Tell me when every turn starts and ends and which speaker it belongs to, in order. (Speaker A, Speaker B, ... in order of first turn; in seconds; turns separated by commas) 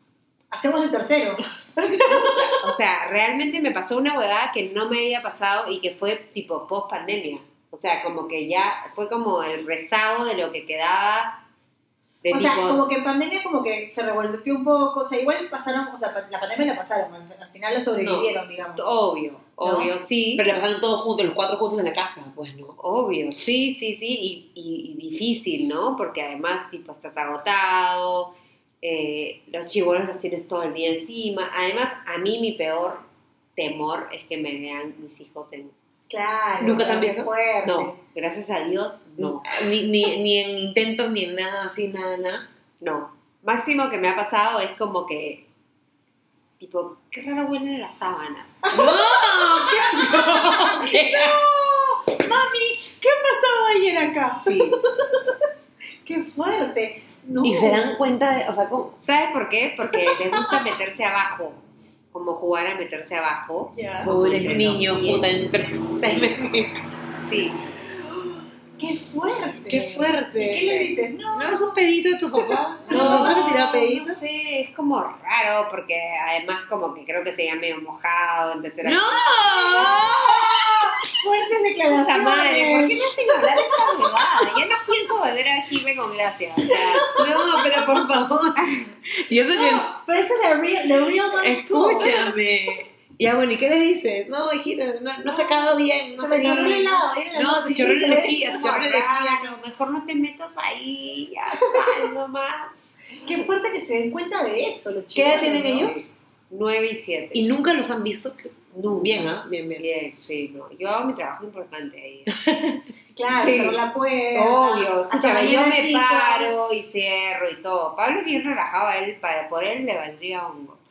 Speaker A: 0.5-2.6, Speaker B: 2.1-11.4, Speaker B: 12.2-12.8, Speaker A: 12.3-18.9, Speaker B: 18.0-20.5, Speaker A: 19.6-19.9, Speaker C: 20.4-22.8, Speaker B: 22.8-35.7, Speaker A: 36.1-38.0, Speaker C: 36.6-37.3, Speaker B: 37.6-39.6, Speaker C: 39.2-42.5, Speaker B: 42.8-45.4, Speaker B: 46.6-48.7, Speaker A: 48.6-55.4, Speaker C: 48.7-51.4, Speaker B: 54.5-54.8, Speaker A: 56.0-58.0, Speaker C: 57.4-59.0, Speaker B: 59.0-61.6, Speaker A: 59.9-60.6, Speaker B: 62.1-65.3, Speaker A: 63.7-64.1, Speaker C: 64.0-66.8, Speaker B: 67.2-67.6, Speaker A: 68.8-71.8, Speaker C: 69.7-74.2, Speaker A: 72.9-73.6, Speaker B: 72.9-79.9, Speaker C: 78.8-80.9, Speaker A: 79.5-84.0, Speaker B: 81.9-88.0, Speaker C: 87.1-89.9, Speaker A: 89.5-92.3, Speaker C: 91.4-99.5, Speaker A: 96.2-98.5, Speaker B: 98.3-102.8, Speaker A: 103.2-105.9, Speaker C: 105.1-106.1, Speaker B: 105.8-107.5, Speaker C: 107.3-109.8, Speaker B: 108.7-112.3, Speaker C: 112.3-112.8, Speaker A: 113.1-116.6, Speaker B: 113.3-113.8, Speaker B: 114.3-120.8